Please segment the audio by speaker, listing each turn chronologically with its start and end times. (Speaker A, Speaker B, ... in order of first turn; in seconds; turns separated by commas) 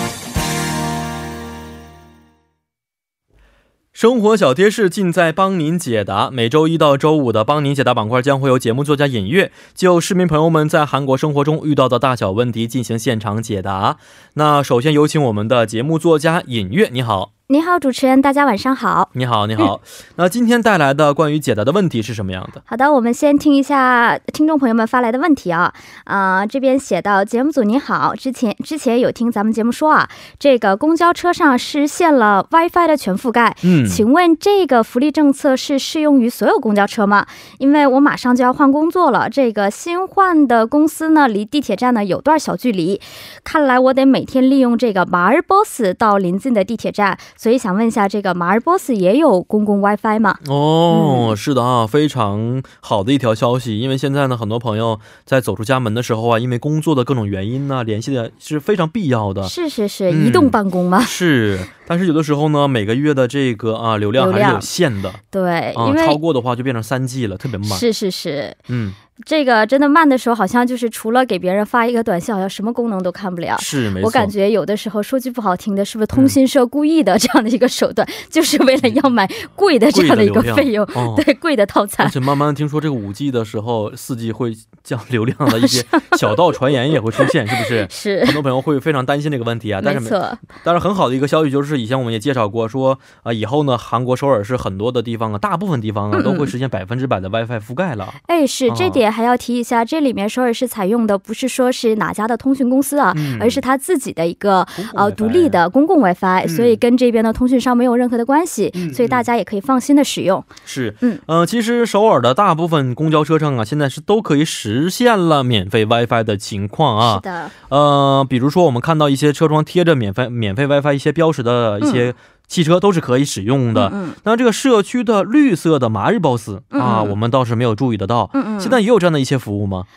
Speaker A: 4.0-17.3, Speaker B: 17.5-19.1, Speaker A: 19.1-22.6, Speaker B: 22.7-51.3, Speaker A: 33.6-34.0, Speaker A: 50.4-59.5, Speaker B: 59.4-61.1, Speaker A: 60.1-65.2, Speaker B: 64.2-64.7, Speaker B: 65.3-66.2, Speaker A: 65.8-67.8, Speaker B: 67.7-68.6, Speaker A: 68.7-69.0, Speaker B: 69.2-82.2, Speaker A: 73.6-74.3, Speaker A: 79.9-81.2, Speaker A: 82.0-99.0, Speaker B: 85.5-86.3, Speaker B: 87.2-88.4, Speaker B: 89.8-90.4, Speaker B: 96.1-96.5, Speaker B: 98.2-110.5, Speaker A: 103.1-103.6, Speaker A: 104.8-105.6, Speaker A: 106.5-106.8, Speaker A: 108.8-109.3, Speaker A: 110.7-129.9, Speaker B: 117.0-117.5, Speaker B: 121.8-122.1, Speaker B: 123.7-124.2, Speaker B: 126.7-127.2, Speaker B: 128.3-128.8